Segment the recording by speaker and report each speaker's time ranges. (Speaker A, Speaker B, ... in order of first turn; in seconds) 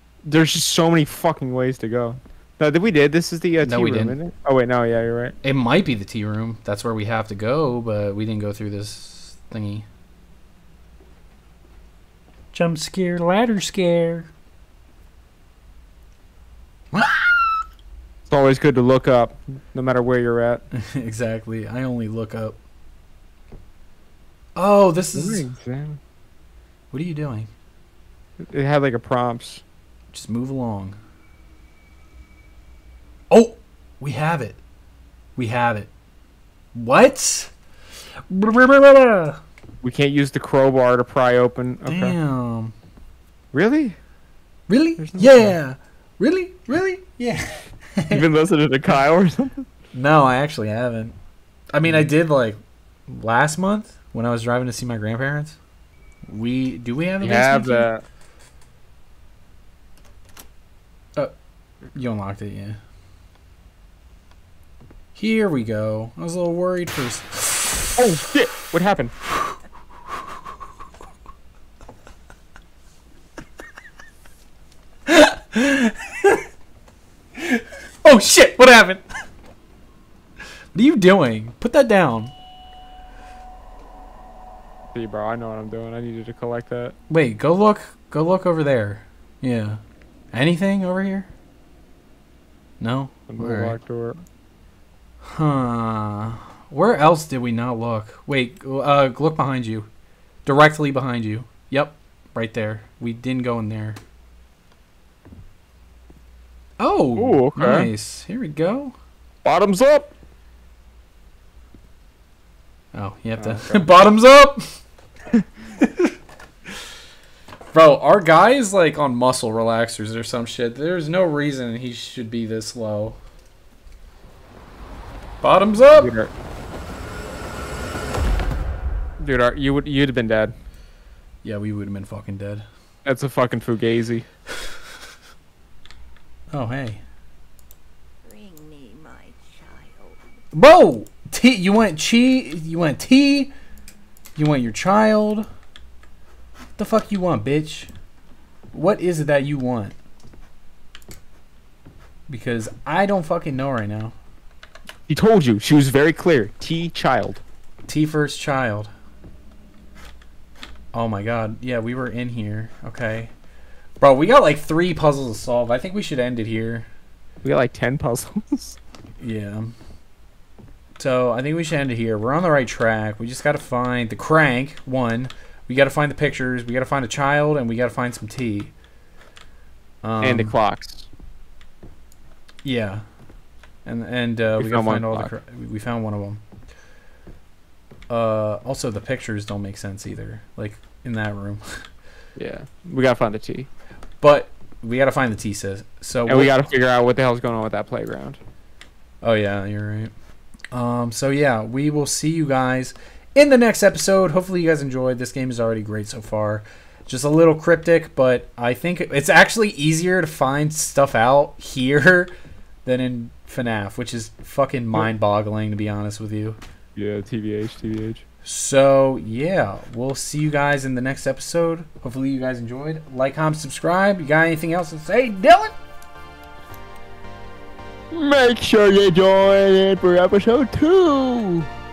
Speaker A: 0.2-5.3, 18.3-20.6, 25.1-26.0, 28.4-29.6, 39.8-42.2, 43.5-44.0, 45.0-45.6, 48.1-49.7, 57.2-58.0, 68.0-69.1, 84.9-87.0, 93.3-94.2, 107.2-107.9, 109.4-110.1, 113.4-113.8, 125.9-126.3, 129.2-130.5, 133.0-134.2, 155.1-157.4, 167.4-168.8, 180.2-181.1, 184.6-185.3, 192.3-193.7, 196.3-198.4, 216.9-218.2, 228.1-231.7
Speaker B: 3.6-4.2, 5.4-9.8, 12.5-14.3, 16.9-17.4, 20.7-22.6, 24.6-25.4, 26.9-27.5, 30.1-31.0, 33.3-34.6, 35.4-35.9, 36.7-37.5, 38.3-39.4, 41.8-42.7, 44.7-48.2, 49.9-51.1, 51.7-55.6, 56.3-57.9, 61.9-62.8, 65.1-67.9, 75.1-76.4, 77.4-79.0, 80.7-82.3, 87.1-89.8, 90.3-91.3, 92.8-93.8, 95.2-99.9, 100.4-104.0, 106.8-108.9, 112.9-114.7, 115.8-116.1, 117.7-123.2, 125.4-126.1, 131.4-132.6, 136.5-137.0, 140.5-143.5, 144.3-145.5, 146.8-147.9, 148.7-149.9, 152.3-154.1, 157.9-158.9, 160.9-163.3, 164.0-166.9, 169.2-169.7, 171.0-178.7, 180.0-180.5, 182.6-183.0, 183.8-186.4, 188.1-191.8, 194.2-196.6, 199.2-200.1, 200.7-212.3, 212.8-216.6, 218.4-225.7
Speaker C: 138.2-140.3